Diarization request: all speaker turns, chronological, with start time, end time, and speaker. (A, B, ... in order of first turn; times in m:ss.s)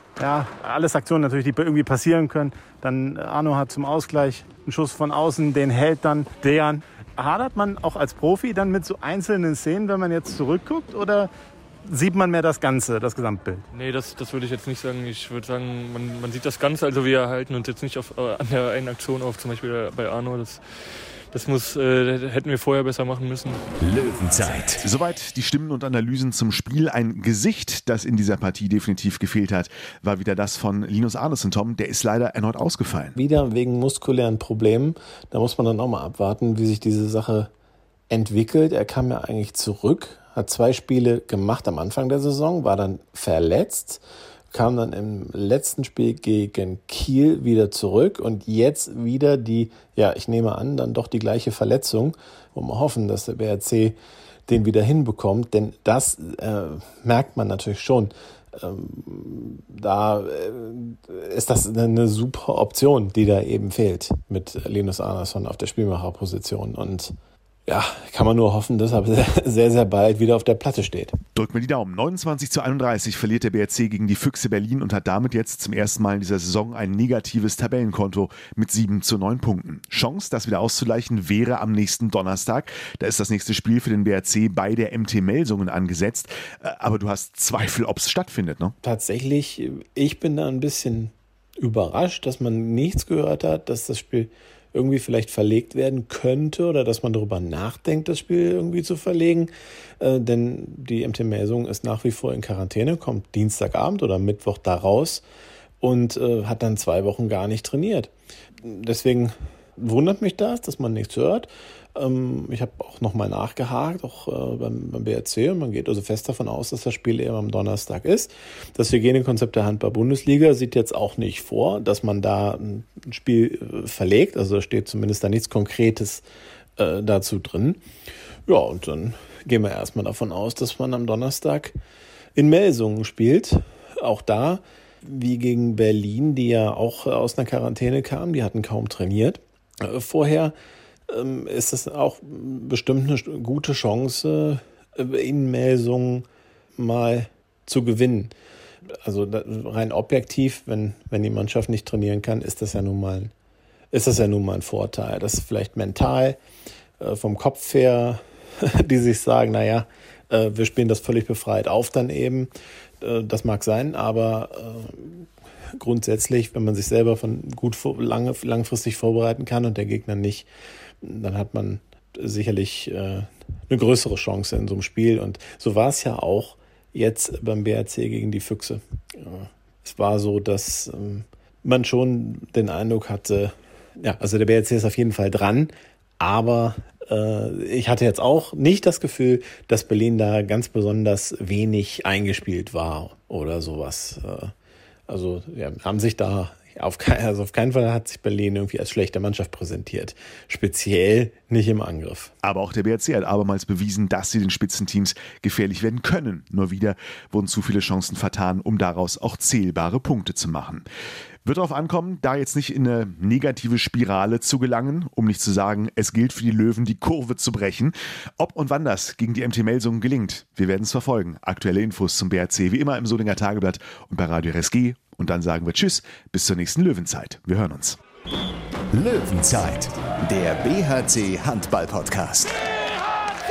0:00.2-0:11.3 A
0:11.8-0:13.6 A
0:13.7-0:23.6 B
0:23.8-0:24.9 C
0:24.8-0:33.2 D
0:33.2-0:37.5 E
0:38.1-1:07.1 E
1:07.7-1:11.2 E
1:11.4-1:28.7 D
1:28.8-1:45.2 E
1:45.8-2:06.2 E
2:06.8-2:07.8 E
2:08.5-2:11.8 E
2:12.4-2:20.5 E
2:21.1-2:28.3 E
2:28.9-2:33.3 E
2:33.9-2:36.4 E
2:37.0-2:42.5 E
2:43.0-2:50.5 E
2:51.0-3:14.5 E
3:15.1-3:22.3 E
3:22.4-3:30.9 D
3:31.4-3:48.0 D
3:48.9-3:52.7 C